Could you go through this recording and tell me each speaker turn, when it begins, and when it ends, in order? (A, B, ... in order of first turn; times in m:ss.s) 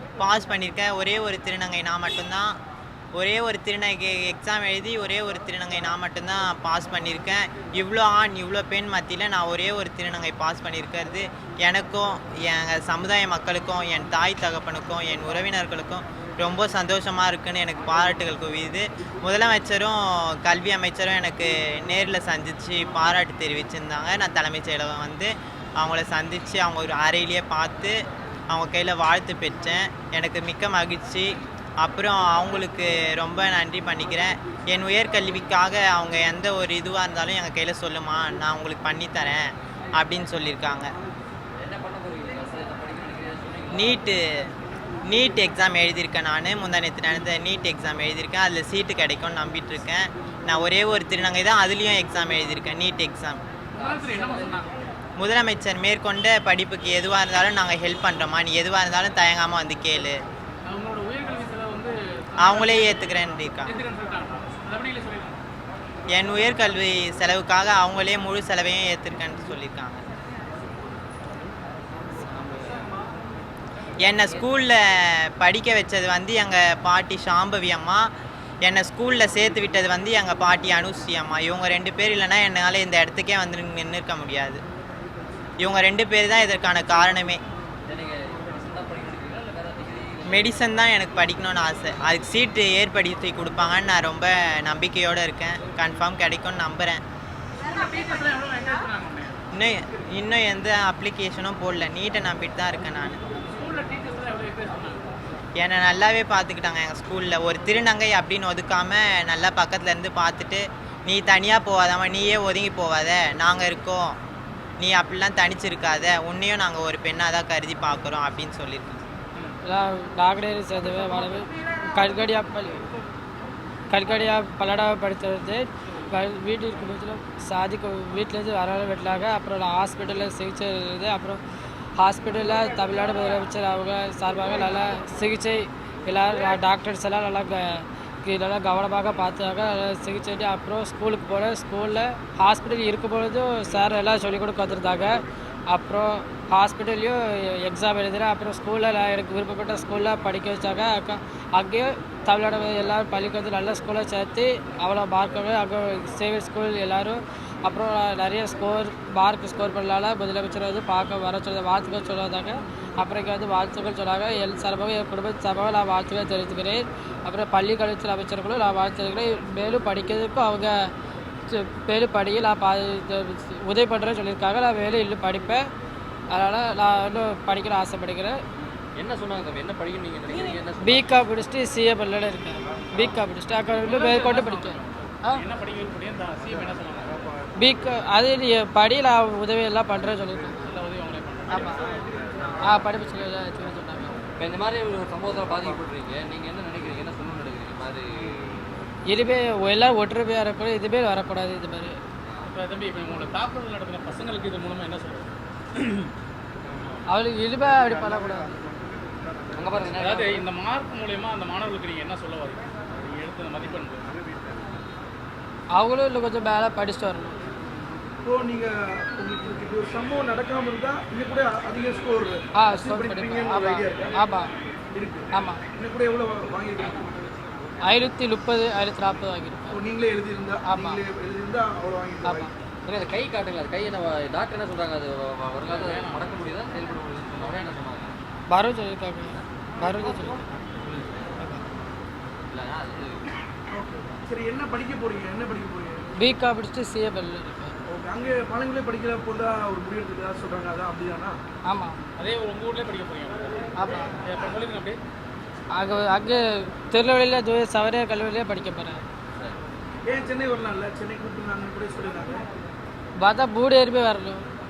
0:00.2-0:02.5 A
0:03.1-0:28.0 A
0:28.5-0:40.9 A
0:41.6-0:44.0 B
0:43.7-0:44.5 A
0:45.1-0:53.4 A
0:53.8-0:54.6 B
0:53.8-0:54.7 C
0:55.2-1:00.2 A
1:00.7-1:03.1 C
1:02.4-1:03.7 A
1:03.6-1:05.4 C
1:06.1-1:10.0 A
1:12.3-1:12.8 B
1:14.0-1:18.1 A
1:18.6-1:24.6 A
1:25.6-1:27.4 A
1:27.9-1:30.6 B
1:30.3-1:37.0 A
1:37.6-1:39.4 C
1:39.5-1:43.2 A
1:43.5-1:45.2 C
1:45.6-1:54.2 A
1:54.8-1:59.0 A
1:59.6-2:02.8 D
2:03.9-2:11.4 D
2:12.0-2:50.9 D
2:51.5-2:55.7 D
2:56.3-2:58.4 D
2:59.0-3:01.1 B
3:00.8-3:05.4 D
3:03.8-3:07.2 C
3:07.6-3:10.7 D
3:10.6-3:11.9 C
3:11.5-3:11.8 D
3:12.6-3:14.2 D
3:14.4-3:18.8 B
3:19.1-3:22.0 D
3:22.5-3:26.1 C
3:27.1-3:28.6 D
3:29.5-3:30.4 B
3:29.9-3:34.0 C
3:35.7-3:37.4 D
3:38.2-3:44.2 E
3:42.6-3:44.5 D
3:44.9-3:47.1 E
3:45.3-3:45.6 D
3:47.8-3:49.8 D
3:49.7-3:52.5 E
3:50.6-3:51.0 D
3:52.2-3:52.5 D
3:52.8-3:58.1 B
3:55.7-3:56.5 C
3:58.5-4:00.5 D
3:59.8-4:01.3 B
4:01.4-4:01.6 D
4:02.5-4:03.3 B
4:03.7-4:06.1 E
4:06.2-4:07.8 D
4:07.8-4:11.4 E
4:11.6-4:12.0 D
4:12.2-4:15.0 C
4:13.8-4:14.2 D
4:15.7-4:19.0 D
4:20.1-4:22.4 E
4:23.2-4:24.4 D